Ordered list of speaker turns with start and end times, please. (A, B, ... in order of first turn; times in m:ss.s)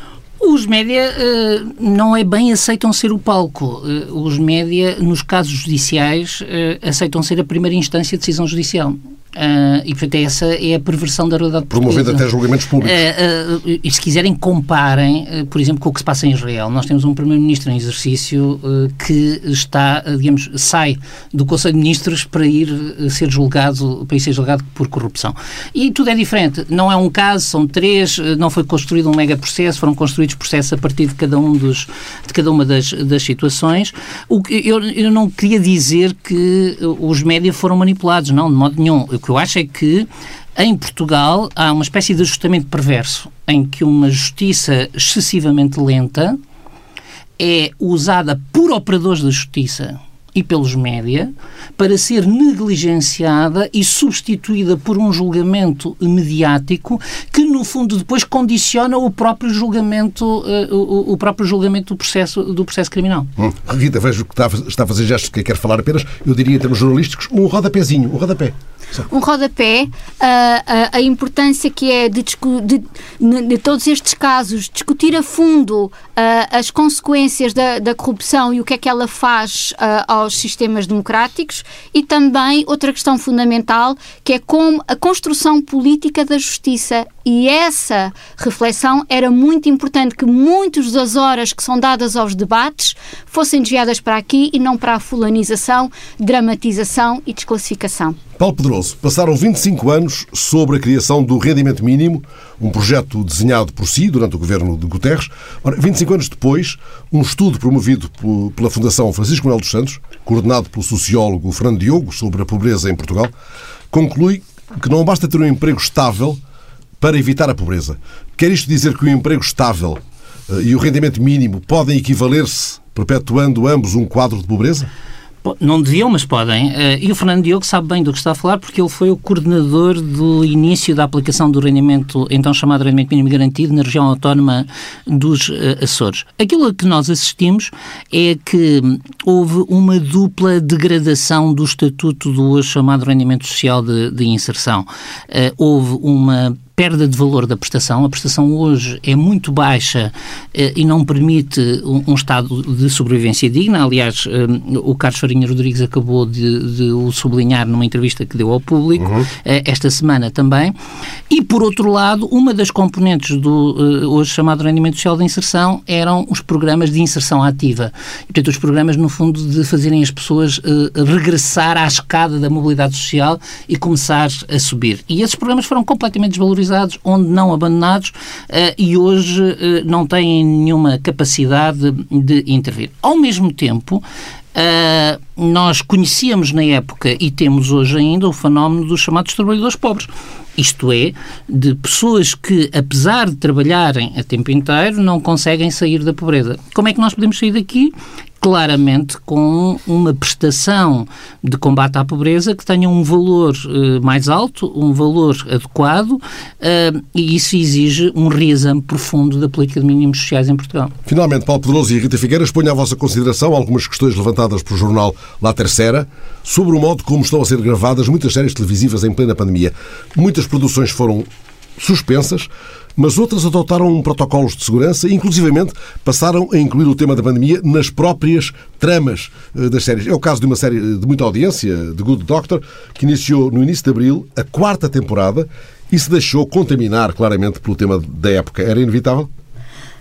0:00.4-0:12.2 A
0:11.7-0:13.0 B
0:12.8-0:46.4 A
0:47.4-1:03.3 A
1:03.4-1:08.5 B
1:09.1-1:38.2 C
1:38.4-1:53.3 B
1:53.9-1:56.4 B
1:57.0-2:04.9 B
2:05.4-2:40.7 A
2:39.0-2:39.3 B
2:41.3-3:04.0 A
3:04.5-3:30.9 A
3:31.1-3:59.3 B